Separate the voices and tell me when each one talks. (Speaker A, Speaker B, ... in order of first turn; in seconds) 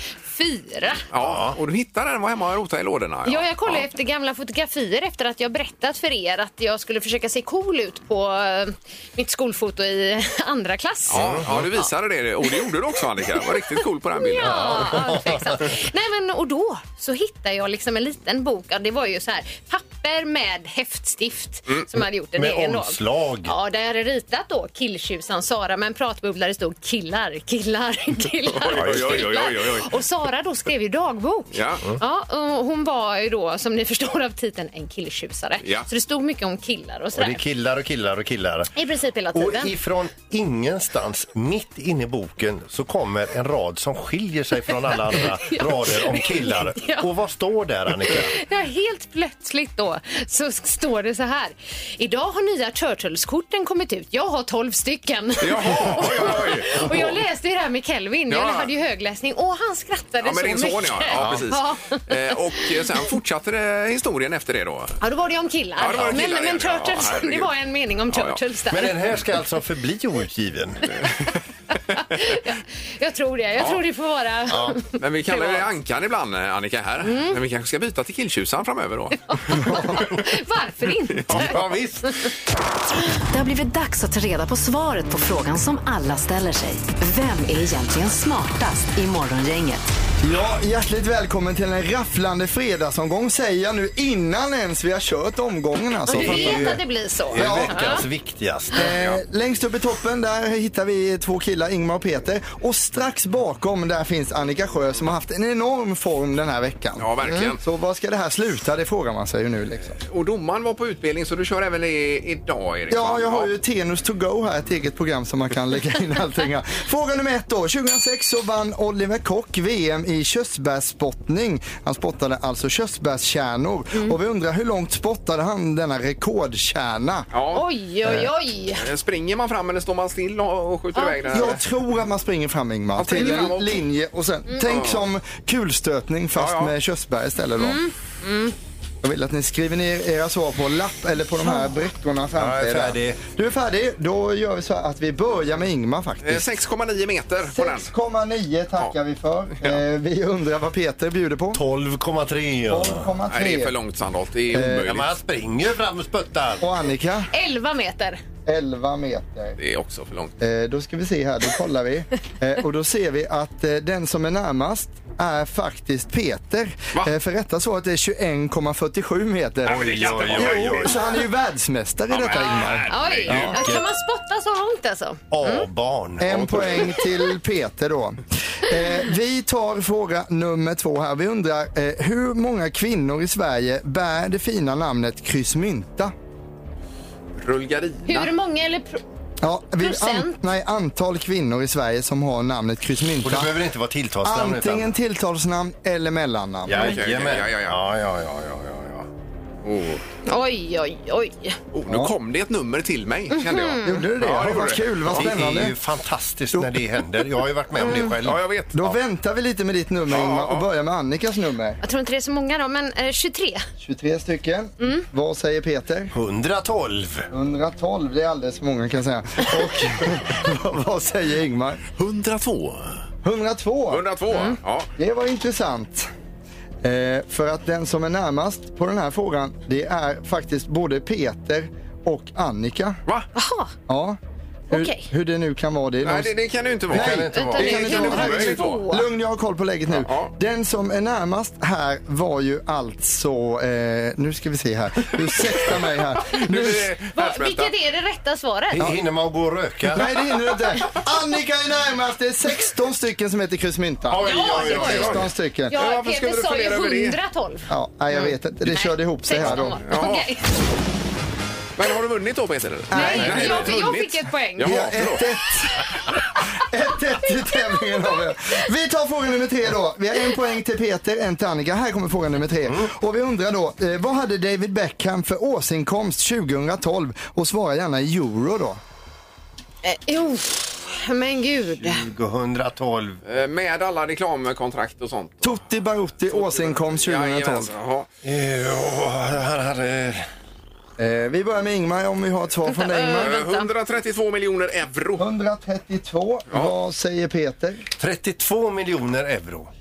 Speaker A: 0.2-1.0, 3.2-11.8, 14.2-37.4, 38.8-39.7, 45.1-47.1, 48.1-63.0, 65.0-69.0, 71.9-75.7, 77.0-77.4, 79.3-82.3, 96.1-98.0, 127.5-128.8, 130.9-131.5, 133.2-133.5, 137.6-138.5, 157.3-158.2, 172.9-175.7, 188.1-189.0, 189.8-190.4, 200.2-201.6, 203.3-204.0, 207.8-208.1, 211.8-213.6, 214.8-215.1, 224.3-224.6, 233.3-233.7, 234.7-235.1, 237.3-239.1, 247.1-248.9, 254.2-255.2, 255.7-260.5, 262.9-264.8, 279.8-282.0, 292.7-293.7
Speaker B: 1.1-3.9, 11.1-15.0, 28.5-29.9, 31.5-31.8, 35.6-35.9, 55.4-57.1, 58.3-58.7, 60.2-65.0, 65.8-67.5, 68.1-68.4, 75.0-79.6, 98.8-99.2, 107.0-107.6, 110.0-113.5, 127.3-127.6, 128.7-131.6, 132.9-133.8, 134.6-135.0, 136.3-136.7, 146.2-147.9, 153.3-155.2, 159.6-160.3, 169.7-171.1, 172.1-173.6, 176.3-176.7, 187.4-188.3, 196.7-197.8, 199.6-200.0, 201.7-205.3, 208.2-208.9, 210.1-210.7, 222.0-222.9, 223.9-224.9, 236.0-238.8, 239.9-240.3, 245.7-247.7, 254.6-257.2, 259.8-260.3, 261.8-265.2, 283.2-285.6, 286.2-288.1, 293.1-295.3
Speaker C: 1.2-1.6, 11.1-11.7, 14.4-15.7, 22.4-23.5, 28.7-29.3, 37.1-38.7, 39.3-48.4, 61.1-61.5, 68.7-71.0, 74.5-74.8, 81.3-82.3, 96.1-98.9, 142.3-143.2, 151.5-153.1, 154.6-156.7, 169.7-171.1, 173.3-173.9, 175.3-176.6, 193.2-194.9, 196.6-199.1, 205.1-208.4, 216.1-217.3, 236.9-238.0, 248.7-250.1, 254.1-255.3, 263.3-263.6, 272.6-272.9, 281.8-283.2, 288.2-290.3, 298.0-299.7
Speaker D: 83.3-89.9
Speaker E: 90.2-96.8, 97.3-97.9, 98.7-107.1, 107.6-110.0, 112.9-127.3, 131.3-137.8, 139.0-146.5, 147.5-151.6, 152.7-153.7, 154.5-154.9, 156.6-157.3, 158.4-159.6, 160.4-173.3, 176.2-186.1, 189.4-193.5, 194.2-196.9, 201.9-202.1, 203.8-205.8, 208.7-211.8, 213.8-216.1, 217.3-221.8, 223.2-224.0, 225.0-226.1, 226.8-233.0, 233.9-234.2, 234.7-236.3, 236.9-246.9, 249.9-255.7, 257.7-259.8, 262.9-263.7, 264.6-265.9, 266.6-278.8, 285.4-287.7, 291.0-293.3, 295.2-297.9